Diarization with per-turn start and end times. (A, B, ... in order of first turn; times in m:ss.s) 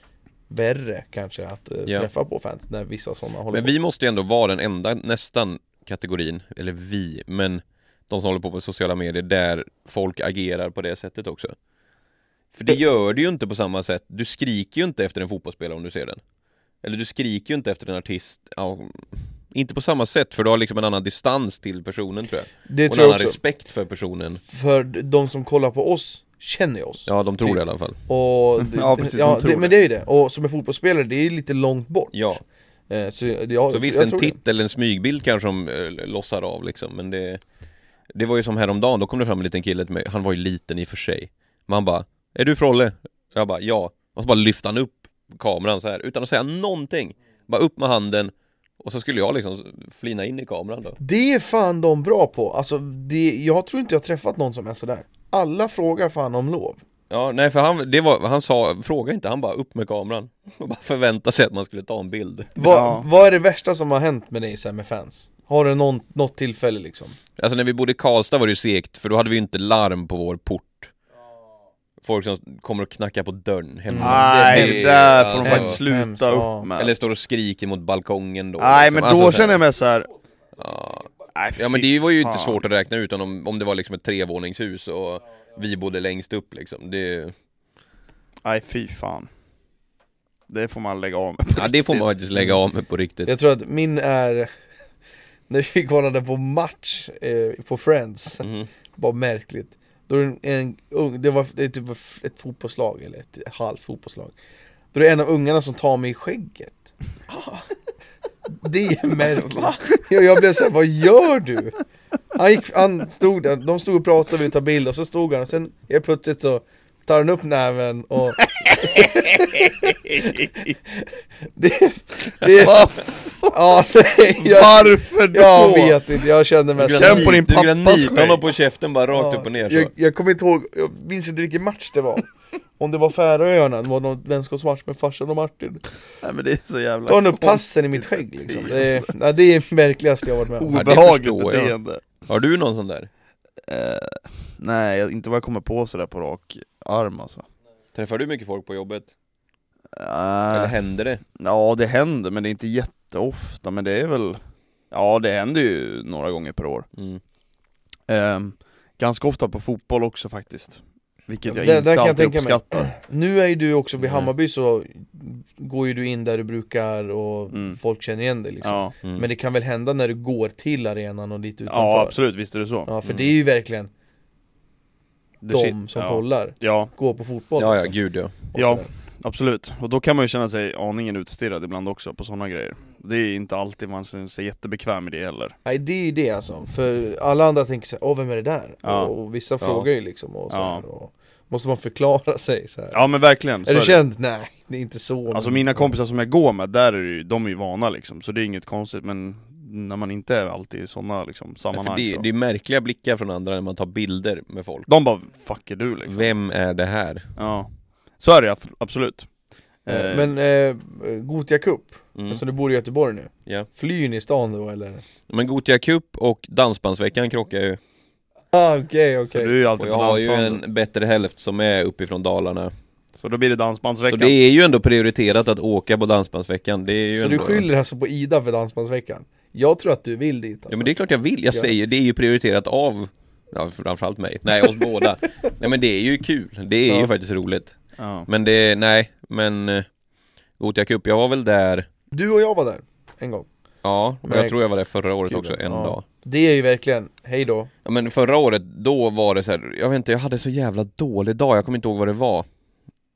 0:00.5-0:03.7 A
0:03.5-0:11.5 B
0:12.5-0:16.2 B
0:16.8-0:24.4 B
0:22.7-0:23.4 A
0:24.5-0:32.4 A
0:27.0-0:28.0 B
0:28.6-0:29.7 C
0:32.1-0:32.4 B
0:32.9-0:34.4 A
0:33.7-0:37.4 B
0:38.1-0:51.0 B
0:51.0-0:56.8 A
0:57.1-1:02.5 B
1:02.6-1:07.2 A
1:02.6-1:03.0 C
1:07.4-1:10.9 B
1:12.0-1:15.8 B
1:13.9-1:16.7 A
1:14.0-1:16.9 C
1:16.8-1:19.6 B
1:18.6-1:20.1 C
1:20.6-1:27.3 B
1:21.3-1:22.6 C
1:28.4-1:29.3 C
1:30.5-1:32.0 C
1:31.5-1:33.3 B
1:33.2-1:34.5 A
1:35.5-1:44.3 A
1:38.4-1:38.7 B
1:44.9-1:46.9 A
1:47.3-1:47.6 B
1:48.5-1:51.8 A
1:49.2-1:49.9 B
1:52.3-1:59.7 A
1:58.6-2:00.5 C
2:00.9-2:07.4 A
2:02.5-2:03.6 C
2:04.4-2:06.0 C
2:06.8-2:09.9 B
2:06.9-2:08.5 C
2:09.1-2:12.2 A
2:12.8-2:15.8 A
2:16.2-2:19.1 C
2:17.1-2:20.8 A
2:20.6-2:22.0 C
2:20.7-2:23.1 B
2:23.7-2:27.4 C
2:27.9-2:29.1 B
2:29.9-2:30.8 C
2:30.5-2:31.2 B
2:31.3-2:34.4 C
2:34.9-2:36.9 C
2:37.0-2:37.2 B
2:38.1-2:42.8 C
2:41.5-2:52.2 A
2:44.0-2:44.3 B
2:47.5-2:47.8 C
2:48.6-2:48.9 C
2:51.7-2:52.9 C
2:52.8-2:53.9 A
2:53.0-2:53.3 B
2:55.4-2:56.9 C
2:55.5-2:57.9 A
2:57.6-2:58.4 B
2:58.5-2:58.9 A
2:58.5-3:05.6 C
3:05.6-3:13.0 A
3:08.8-3:09.1 C
3:09.6-3:09.9 B
3:10.5-3:10.8 C
3:12.9-3:14.0 C
3:13.6-3:15.9 A
3:15.3-3:22.2 C
3:21.7-3:24.9 B
3:24.9-3:26.3 C
3:26.0-3:27.3 B
3:27.4-3:29.3 C
3:29.8-3:30.3 C
3:29.9-3:35.0 A
3:32.2-3:32.4 B
3:35.3-3:37.8 B
3:38.5-3:39.5 A
3:39.3-3:40.6 C
3:39.8-3:42.7 B
3:43.2-3:44.4 C
3:44.1-3:47.6 B
3:47.2-3:50.9 A
3:50.7-3:59.8 B
3:58.0-3:58.3 C
4:00.6-4:01.8 B
4:02.1-4:03.5 A
4:03.8-4:06.0 B
4:04.2-4:04.5 A
4:05.3-4:07.7 A
4:07.8-4:12.4 B